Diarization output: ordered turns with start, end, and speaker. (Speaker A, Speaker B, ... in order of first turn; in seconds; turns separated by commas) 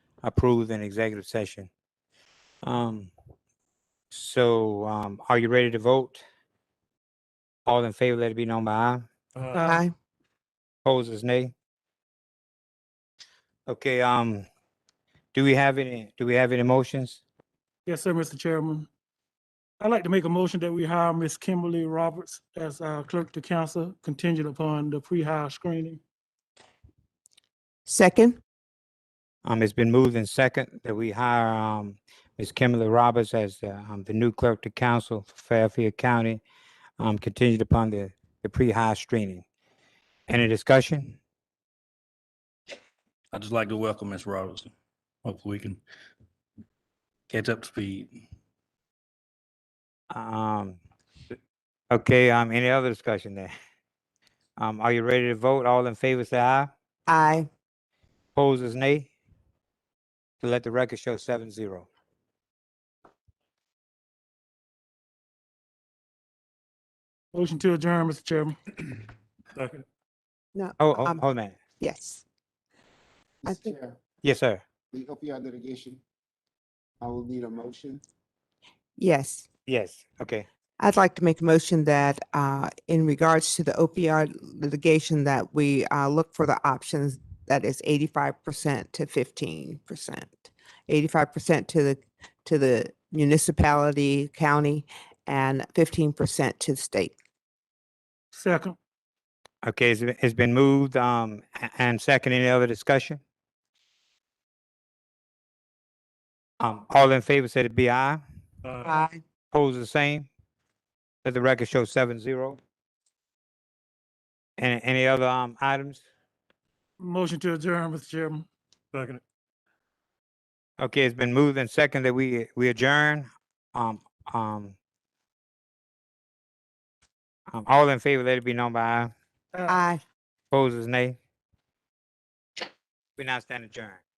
Speaker A: 0.2-1.7, Speaker A: 2.6-3.1, Speaker A: 4.1-6.2, Speaker A: 7.7-9.1, Speaker B: 9.4-9.8, Speaker C: 9.6-9.9, Speaker A: 10.8-11.5, Speaker A: 13.7-14.4, Speaker A: 15.3-17.2, Speaker B: 17.9-18.9, Speaker B: 19.8-26.0, Speaker C: 27.9-28.4, Speaker A: 29.4-36.4, Speaker A: 37.0-39.4, Speaker A: 40.3-41.2, Speaker D: 43.3-44.7, Speaker D: 45.2-45.8, Speaker D: 47.3-48.2, Speaker A: 50.1-50.8, Speaker A: 51.9-53.5, Speaker A: 54.6-56.7, Speaker C: 57.1-57.5, Speaker A: 58.4-59.1, Speaker A: 60.4-61.9, Speaker B: 67.3-68.6, Speaker C: 70.5-71.2, Speaker A: 70.8-71.6, Speaker C: 71.8-72.2, Speaker E: 73.4-74.0, Speaker C: 73.5-73.8, Speaker A: 74.2-74.6, Speaker E: 74.9-76.0, Speaker E: 77.0-78.0, Speaker C: 79.0-79.5, Speaker A: 79.7-80.5, Speaker C: 80.8-90.4, Speaker C: 90.9-97.2, Speaker B: 98.3-98.8, Speaker A: 99.6-103.2, Speaker A: 106.6-108.2, Speaker B: 108.7-109.0, Speaker C: 108.8-109.2, Speaker A: 109.5-110.3, Speaker A: 111.2-112.6, Speaker A: 114.6-116.0, Speaker B: 117.0-119.2, Speaker A: 120.8-124.8, Speaker A: 127.5-129.1, Speaker B: 129.5-129.8, Speaker C: 129.7-130.0, Speaker A: 130.5-131.2, Speaker A: 133.2-134.0